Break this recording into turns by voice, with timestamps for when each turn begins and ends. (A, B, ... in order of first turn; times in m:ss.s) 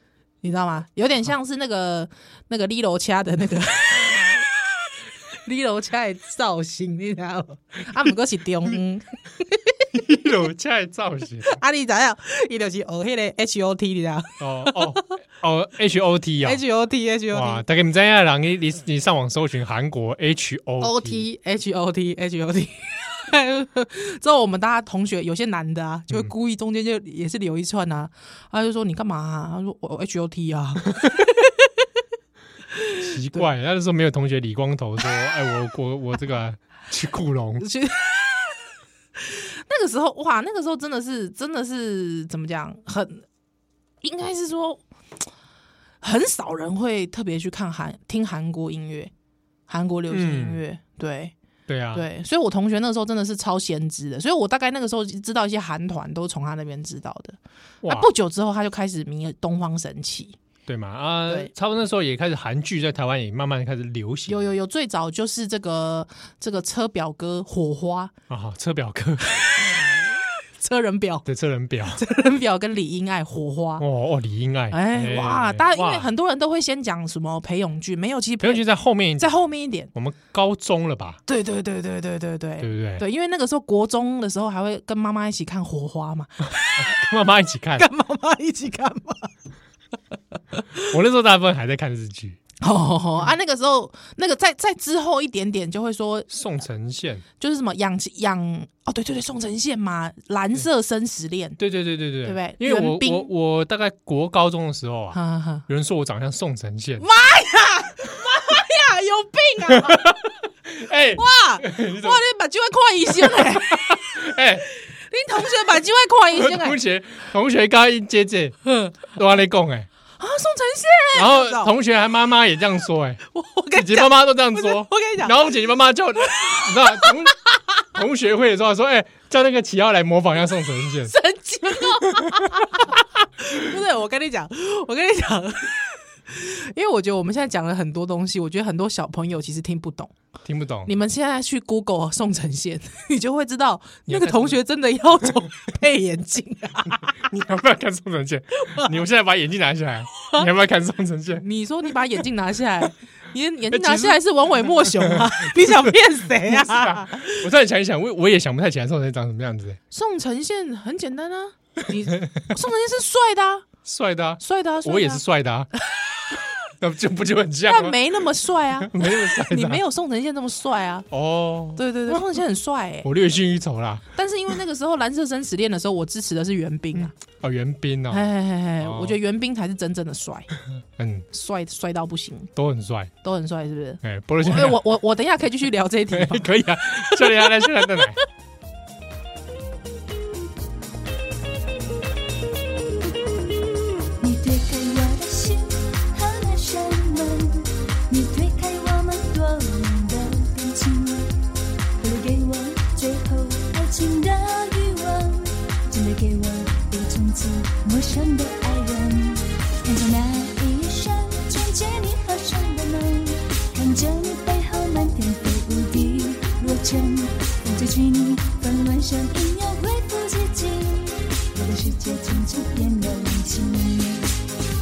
0:00.4-0:04.5 A
0:05.4-0:10.3 A
0:09.9-0:11.6 B
0:11.4-0:15.2 A
0:14.4-0:16.6 B
0:16.4-0:17.6 A
0:17.3-0:21.2 B
0:20.8-0:31.9 A
0:32.7-0:33.4 A
0:33.0-0:37.7 B
0:37.6-0:38.7 A
0:39.2-0:43.2 A
0:44.0-0:44.8 A
0:46.0-0:49.1 A
0:49.7-0:51.3 A
0:50.1-0:50.6 B
0:51.7-0:52.1 B
0:51.9-1:00.4 A
0:57.8-0:58.1 B
1:00.7-1:04.5 B
1:04.3-1:08.1 A
1:08.3-1:09.9 B
1:09.6-1:09.9 A
1:10.6-1:11.3 A
1:11.3-1:12.0 B
1:12.0-1:13.8 A
1:13.8-1:16.1 B
1:14.7-1:18.6 A
1:18.4-1:19.4 B
1:19.2-1:19.9 A
1:19.9-1:21.2 B
1:21.3-1:27.0 A
1:22.6-1:23.0 B
1:26.8-1:27.9 B
1:27.8-1:29.3 A
1:30.8-1:32.4 B
1:32.6-1:36.3 A
1:36.3-1:37.2 B
1:37.4-1:41.6 A
1:41.6-1:47.1 B
1:42.2-1:43.3 A
1:45.1-1:45.6 A
1:47.0-1:50.3 A
1:49.8-1:52.2 B
1:51.2-1:56.8 A
1:53.1-1:54.7 B
1:56.4-1:59.9 B
1:58.7-1:59.0 A
2:00.2-2:01.7 A
2:01.1-2:03.2 B
2:03.3-2:05.4 A
2:03.7-2:11.2 B
2:06.3-2:07.2 A
2:11.1-2:20.1 A
2:11.8-2:12.8 B
2:20.4-2:21.0 B
2:20.9-2:27.3 A
2:24.1-2:24.6 B
2:27.0-2:31.4 B
2:28.6-2:28.9 A
2:30.2-2:30.5 A
2:31.4-2:37.4 A
2:33.7-2:39.8 B
2:39.9-2:43.7 A
2:43.8-2:45.7 B
2:44.4-2:45.2 A
2:46.8-2:48.0 B
2:47.7-2:51.1 A
2:48.8-2:49.8 B
2:51.1-2:52.3 B
2:51.8-2:53.1 A
2:53.0-2:54.1 B
2:54.1-2:57.1 A
2:57.0-2:58.2 B
2:58.1-3:00.5 A
2:58.8-2:59.2 B
3:01.0-3:01.3 B
3:01.3-3:02.5 A
3:02.6-3:03.1 B
3:03.2-3:08.2 A
3:04.0-3:04.8 B
3:06.1-3:08.2 B
3:14.2-3:21.4 C
3:22.0-3:44.4 C